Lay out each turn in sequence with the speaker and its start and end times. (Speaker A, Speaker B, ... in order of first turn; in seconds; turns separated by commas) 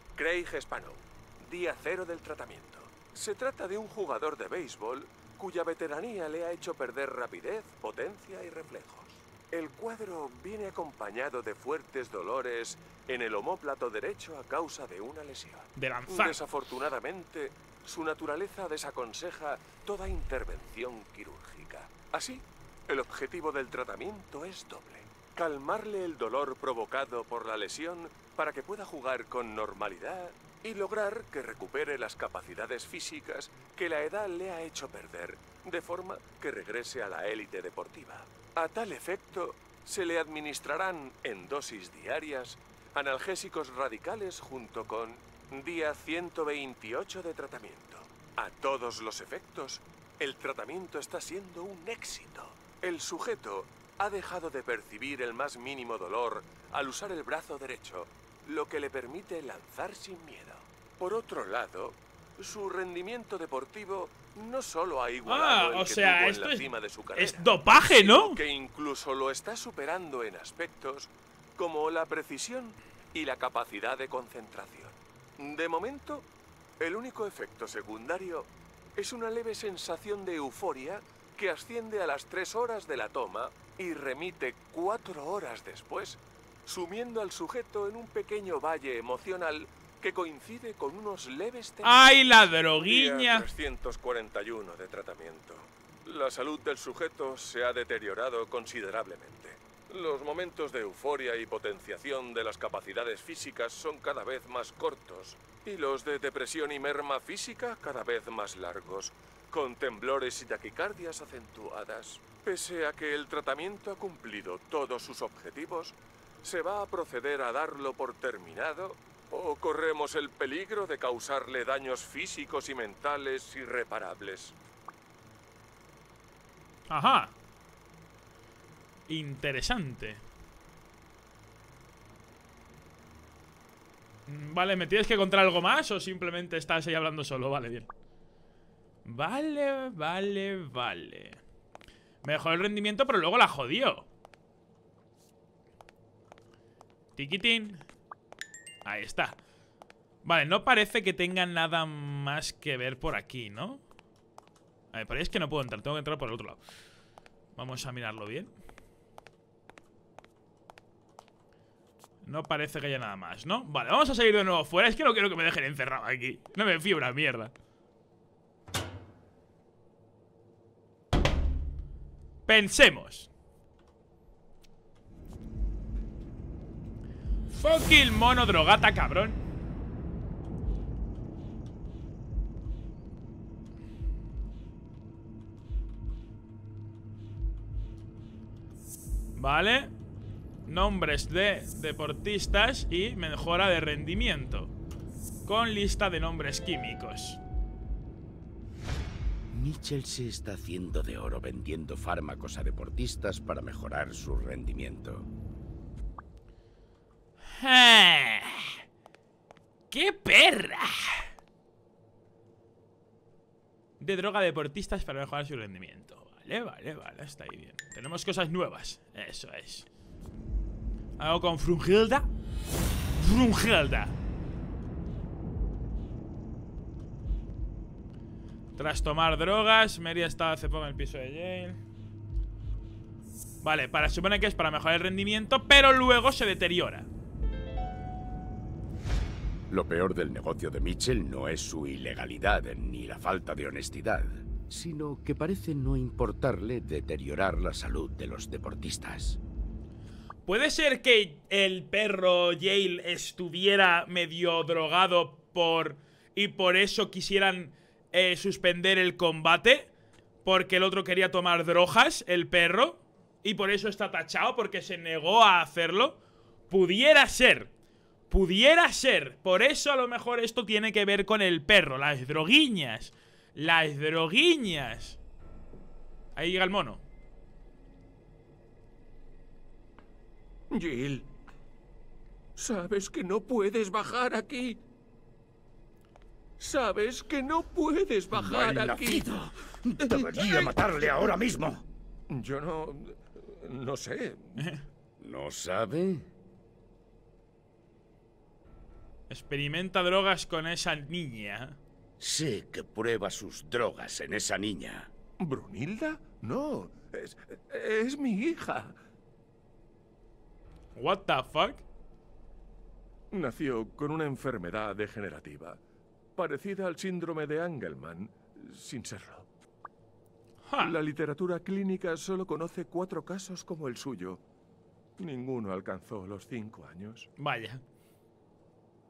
Speaker A: 0.1-76.2, Speaker B: 15.8-16.4, Speaker B: 65.2-66.6, Speaker B: 67.1-68.4, Speaker A: 76.8-92.0, Speaker B: 91.8-93.5, Speaker A: 92.7-124.5, Speaker B: 126.9-127.3, Speaker B: 129.1-130.2, Speaker B: 134.3-137.9, Speaker B: 139.0-141.4, Speaker B: 142.2-144.1, Speaker B: 147.2-147.8, Speaker B: 148.8-149.4, Speaker B: 150.2-153.8, Speaker B: 154.9-156.6, Speaker B: 157.6-158.5, Speaker B: 162.2-167.5, Speaker B: 172.4-173.3, Speaker B: 177.5-179.4, Speaker B: 189.3-189.9, Speaker B: 190.7-194.7, Speaker B: 195.4-197.4, Speaker C: 199.5-205.3, Speaker B: 207.6-208.7, Speaker B: 209.9-211.2, Speaker B: 214.0-219.9, Speaker B: 221.2-222.3, Speaker B: 223.2-224.2, Speaker B: 228.8-231.8, Speaker B: 233.6-237.1, Speaker C: 239.7-249.4, Speaker B: 250.4-259.9, Speaker B: 260.4-266.2, Speaker B: 266.7-267.7, Speaker B: 268.3-275.2, Speaker B: 276.4-277.0, Speaker A: 280.7-281.3, Speaker A: 282.6-284.8, Speaker A: 286.6-289.3, Speaker C: 288.3-291.9, Speaker A: 290.0-290.7, Speaker A: 292.3-294.6, Speaker C: 295.2-296.3, Speaker B: 299.3-301.8, Speaker C: 302.2-305.1, Speaker A: 305.4-308.9, Speaker B: 310.9-311.8, Speaker A: 313.3-315.8, Speaker A: 316.4-319.5, Speaker B: 320.7-320.9, Speaker A: 320.8-324.4, Speaker A: 325.2-327.3, Speaker B: 327.4-327.8